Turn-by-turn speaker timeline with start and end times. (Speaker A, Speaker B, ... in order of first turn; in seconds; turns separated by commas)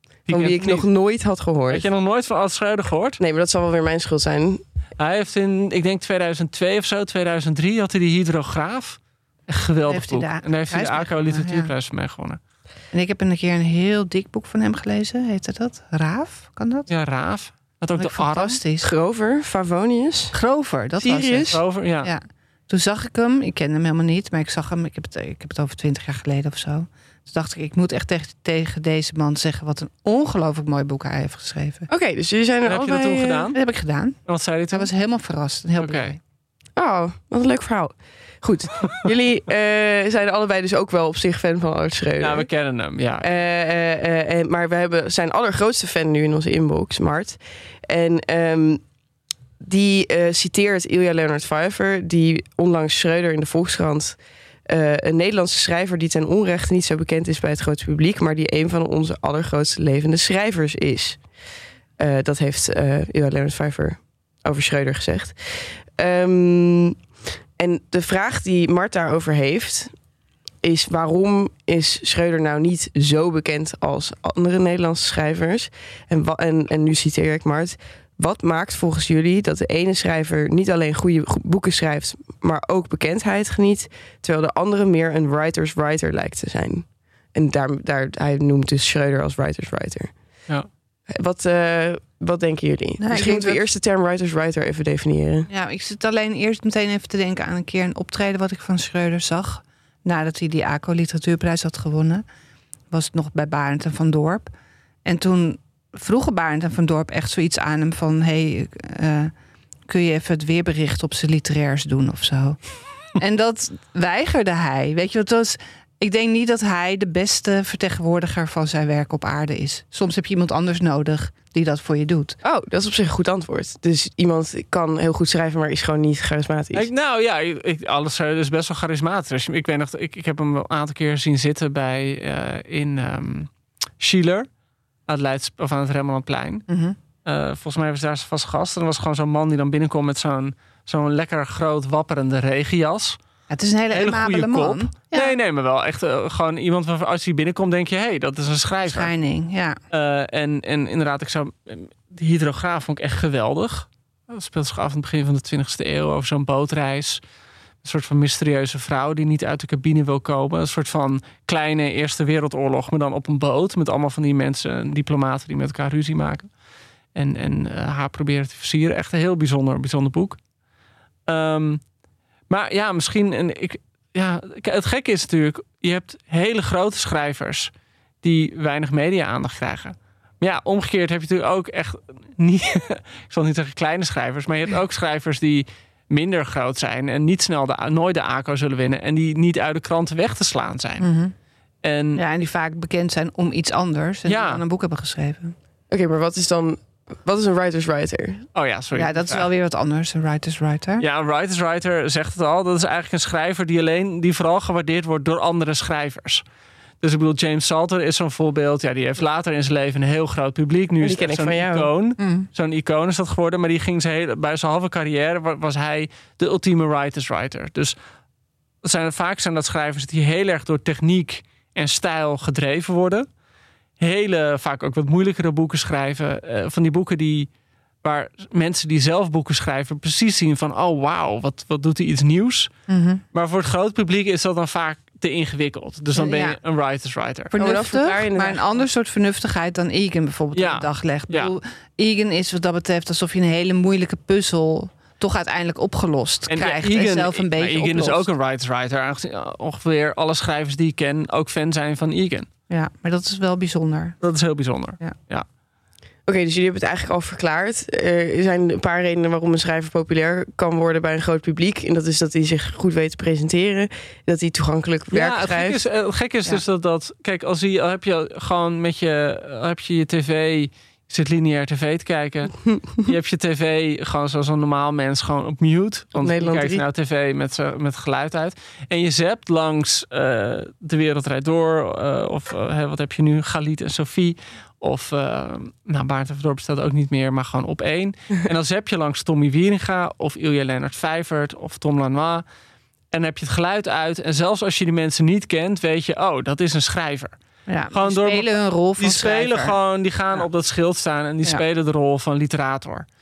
Speaker A: 0.3-0.9, Speaker B: 0.3-1.9, Speaker A: 1.7-3.2, Speaker B: 3.2-4.6, Speaker A: 5.0-12.4, Speaker C: 9.9-11.7, Speaker C: 12.9-16.9, Speaker A: 16.9-18.6, Speaker C: 18.0-18.9, Speaker B: 18.8-20.4, Speaker C: 20.3-31.9, Speaker B: 21.0-21.6, Speaker A: 21.5-22.1, Speaker B: 31.9-33.5, Speaker A: 32.7-33.6, Speaker C: 33.5-34.2, Speaker A: 34.3-34.9, Speaker C: 34.7-36.2, Speaker A: 35.8-36.1, Speaker B: 36.8-42.5, Speaker A: 42.2-43.3, Speaker B: 43.2-48.8, Speaker B: 49.6-61.2, Speaker B: 62.0-67.0, Speaker B: 67.6-69.9, Speaker B: 70.6-90.2, Speaker B: 91.1-95.5, Speaker C: 93.0-93.7, Speaker C: 95.5-102.2, Speaker C: 102.9-104.5, Speaker C: 105.0-109.3, Speaker C: 109.9-112.6, Speaker C: 113.2-122.4, Speaker B: 122.4-126.9, Speaker A: 126.7-134.5, Speaker A: 135.1-136.7, Speaker C: 136.7-137.0, Speaker A: 137.2-143.2, Speaker C: 143.5-145.4, Speaker A: 143.9-149.1, Speaker C: 148.9-149.8, Speaker A: 149.9-157.2, Speaker A: 157.8-166.5, Speaker A: 167.2-170.4, Speaker A: 171.3-171.8, Speaker A: 172.5-177.7, Speaker A: 178.2-191.1, Speaker C: 191.0-191.3, Speaker A: 191.8-192.2, Speaker C: 192.2-195.6, Speaker A: 194.3-194.6, Speaker B: 195.9-198.4, Speaker A: 198.6-199.5, Speaker C: 198.9-201.0, Speaker A: 201.0-206.4, Speaker A: 207.0-217.9, Speaker B: 211.0-211.9, Speaker C: 212.2-212.5, Speaker A: 218.8-223.3, Speaker A: 224.0-227.5, Speaker A: 228.0-232.7, Speaker C: 232.9-233.2, Speaker A: 233.3-237.5, Speaker C: 236.2-236.6, Speaker B: 237.5-238.9, Speaker C: 237.5-248.3, Speaker A: 240.5-241.5, Speaker A: 246.5-252.5, Speaker C: 252.7-254.2, Speaker A: 254.2-255.5, Speaker B: 256.3-265.8, Speaker A: 265.1-292.4, Speaker B: 276.2-276.8, Speaker A: 293.1-297.4, Speaker C: 297.7-299.8, Speaker A: 297.9-303.1